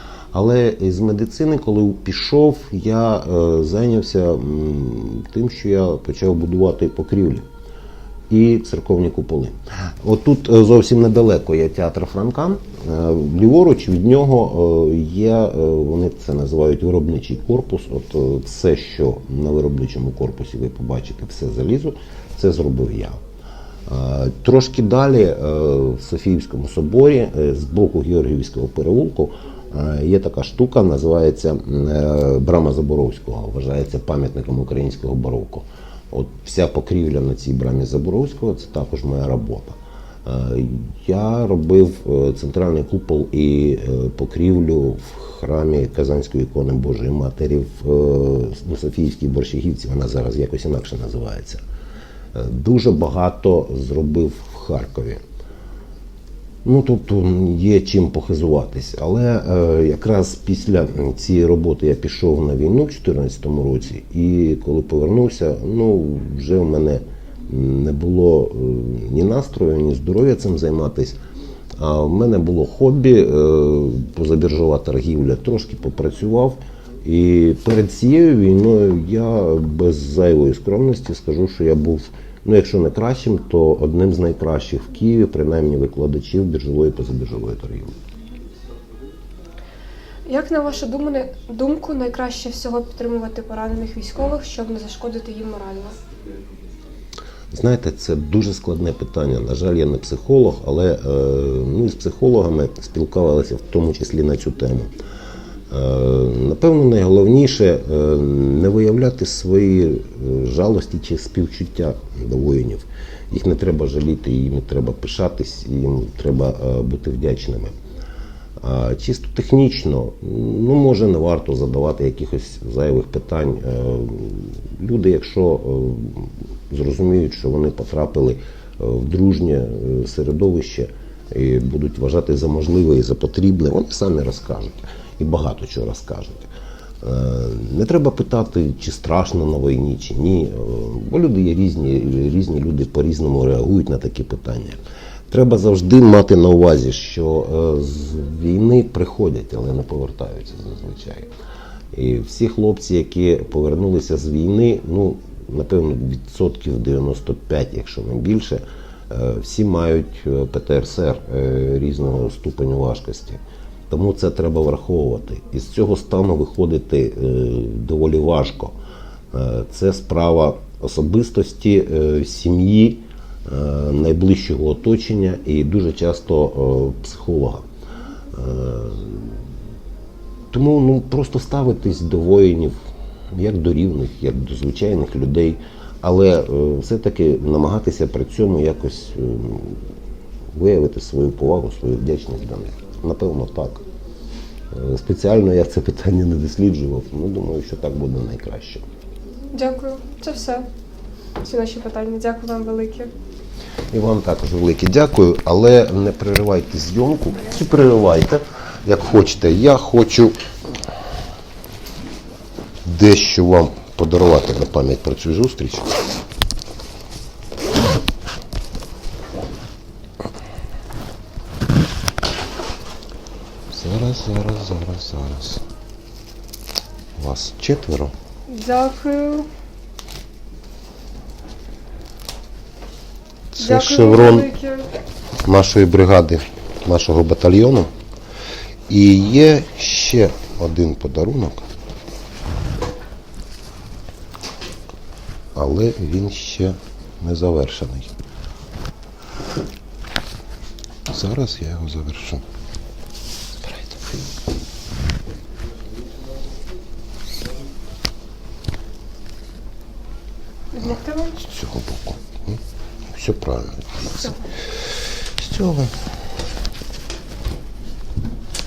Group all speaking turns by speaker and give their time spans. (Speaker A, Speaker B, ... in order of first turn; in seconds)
Speaker A: 0.3-7.4, 8.3-23.2, 23.9-51.6, 52.3-55.2, 56.6-71.2, 71.8-87.9, 97.5-104.9, 105.7-117.7, 118.6-136.5, 137.0-144.8, 145.3-151.3, 151.9-168.8, 169.3-177.6, 178.3-179.4, 180.5-182.7, 183.3-189.8, 190.5-193.8, 194.7-198.8, 203.9-210.3, 212.8-215.9, 223.7-225.6, 227.2-228.1, 233.5-234.5, 235.4-237.9, 238.9-241.7, 245.6-248.2, 251.1-252.4, 253.6-254.2, 261.4-266.0
Speaker B: 90.2-96.0, 199.5-200.7, 201.4-203.1, 228.5-229.5, 233.6-234.9, 260.7-261.4